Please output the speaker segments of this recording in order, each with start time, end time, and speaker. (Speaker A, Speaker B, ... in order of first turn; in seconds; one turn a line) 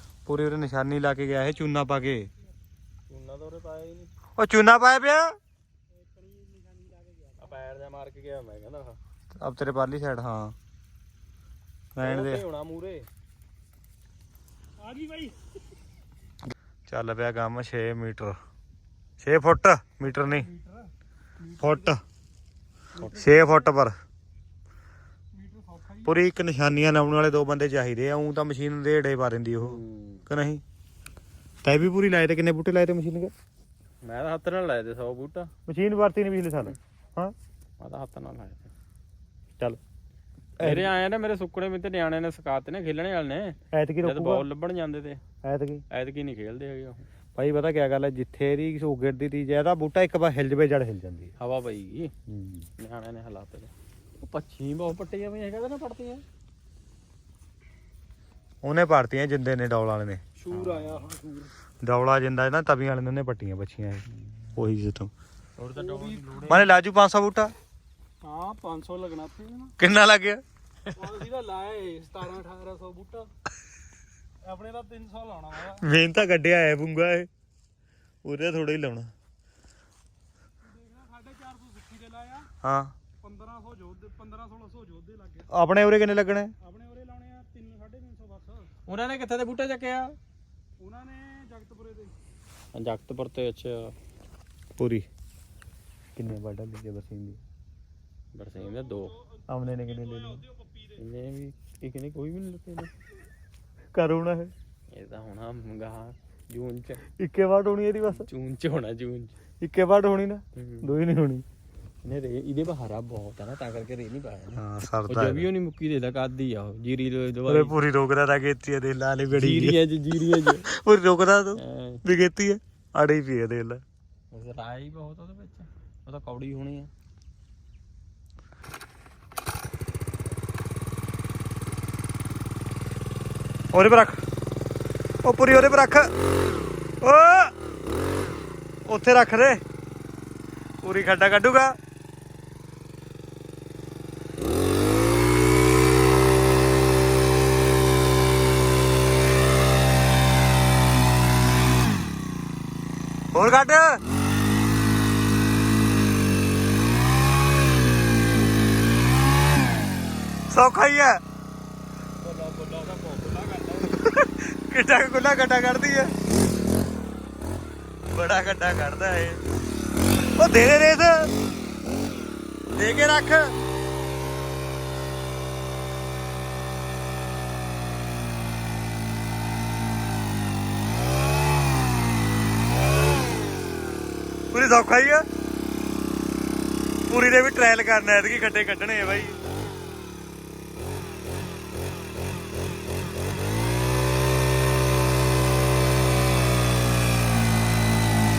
Speaker A: 0.2-2.3
Speaker B: 3.1-4.1
Speaker A: 4.4-5.3
Speaker C: 5.9-7.5
Speaker B: 7.4-9.0
Speaker A: 9.3-10.6
Speaker A: 12.0-12.4
Speaker B: 12.0-13.1
Speaker C: 14.8-15.5
Speaker A: 16.5-18.4
Speaker A: 19.2-20.5
Speaker C: 20.0-22.0
Speaker A: 21.6-22.0
Speaker C: 22.9-23.6
Speaker A: 23.1-23.9
Speaker C: 25.3-26.2
Speaker A: 26.0-30.6
Speaker B: 29.6-30.2
Speaker A: 31.6-33.3
Speaker B: 34.0-35.5
Speaker A: 35.6-37.3
Speaker B: 37.8-38.7
Speaker B: 40.6-45.2
Speaker A: 40.6-40.9
Speaker A: 43.7-44.4
Speaker A: 45.4-45.8
Speaker B: 45.9-47.0
Speaker A: 47.4-51.3
Speaker B: 51.4-52.1
Speaker A: 52.3-52.7
Speaker B: 52.8-56.2
Speaker A: 58.6-60.9
Speaker C: 60.4-61.5
Speaker A: 61.8-65.1
Speaker B: 65.6-66.7
Speaker C: 65.8-66.4
Speaker A: 66.5-67.5
Speaker C: 68.2-69.7
Speaker A: 69.8-70.4
Speaker C: 70.9-73.3
Speaker C: 74.4-75.8
Speaker A: 75.7-77.3
Speaker A: 78.2-79.1
Speaker C: 80.6-82.5
Speaker A: 82.6-82.9
Speaker C: 83.2-85.5
Speaker A: 85.5-86.5
Speaker C: 86.6-88.7
Speaker B: 88.9-90.2
Speaker C: 90.8-92.1
Speaker B: 92.7-93.9
Speaker A: 94.8-95.1
Speaker A: 96.2-97.4
Speaker B: 98.3-99.1
Speaker C: 98.6-101.0
Speaker A: 99.5-100.4
Speaker B: 101.0-102.9
Speaker A: 103.9-104.5
Speaker B: 104.9-107.0
Speaker A: 107.2-108.3
Speaker B: 108.1-109.3
Speaker A: 109.6-111.4
Speaker B: 110.5-110.9
Speaker B: 112.0-117.7
Speaker A: 114.5-115.5
Speaker A: 117.5-119.8
Speaker B: 119.3-120.7
Speaker A: 120.5-123.8
Speaker B: 121.5-122.0
Speaker B: 124.3-126.9
Speaker A: 133.7-134.2
Speaker A: 135.2-136.1
Speaker A: 137.0-137.5
Speaker A: 138.9-139.6
Speaker A: 140.8-141.8
Speaker A: 153.3-154.0
Speaker A: 160.5-161.2
Speaker B: 162.2-163.9
Speaker A: 163.9-166.1
Speaker A: 168.1-169.4
Speaker A: 170.3-171.3
Speaker A: 172.7-173.5
Speaker A: 184.5-185.2
Speaker A: 187.1-189.3